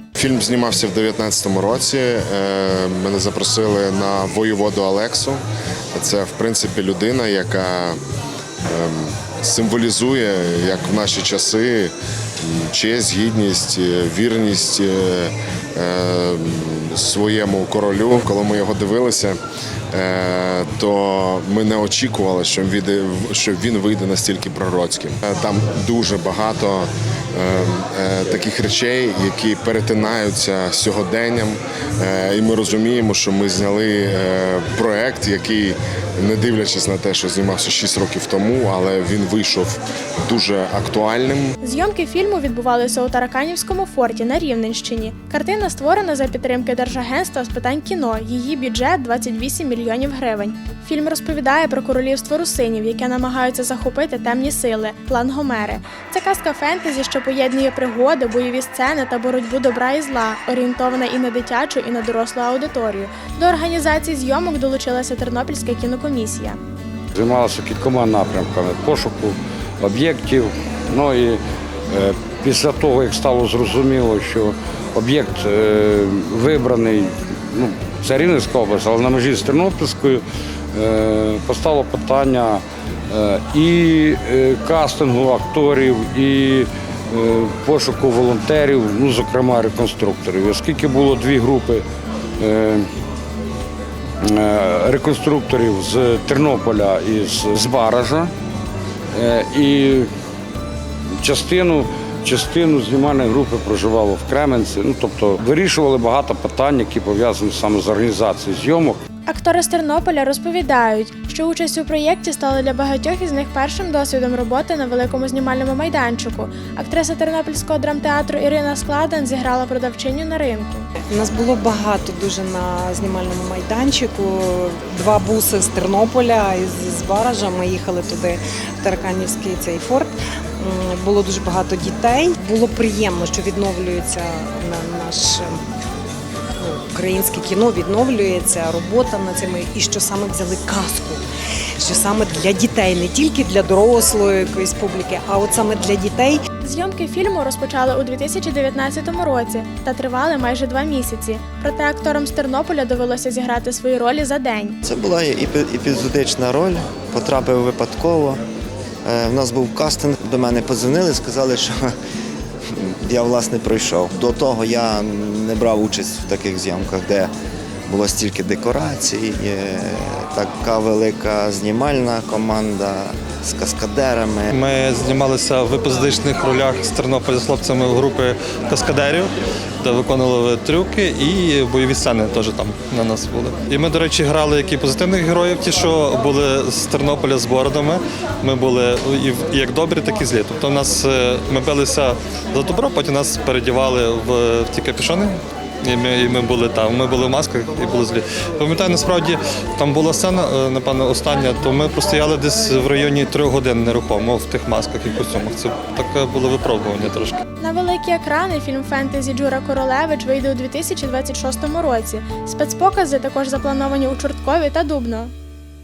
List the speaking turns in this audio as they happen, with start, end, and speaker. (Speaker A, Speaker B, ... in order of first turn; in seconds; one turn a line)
Speaker A: 0.2-5.4
Speaker A: 6.0-8.0
Speaker A: 8.7-19.4
Speaker A: 19.9-41.5
Speaker B: 41.6-66.6
Speaker C: 67.2-80.2
Speaker C: 80.7-91.8
Speaker C: 92.4-92.9
Speaker C: 94.2-98.3
Speaker C: 99.1-100.1
Speaker C: 101.2-109.0
Speaker B: 109.3-120.9
Speaker D: 121.0-135.6
Speaker D: 136.6-141.2
Speaker D: 141.8-146.4
Speaker B: 146.6-154.8
Speaker E: 154.8-158.4
Speaker E: 159.0-161.8
Speaker E: 162.8-167.3
Speaker E: 167.9-174.5
Speaker F: 174.5-179.3
Speaker F: 179.8-207.4
Speaker B: 207.6-215.3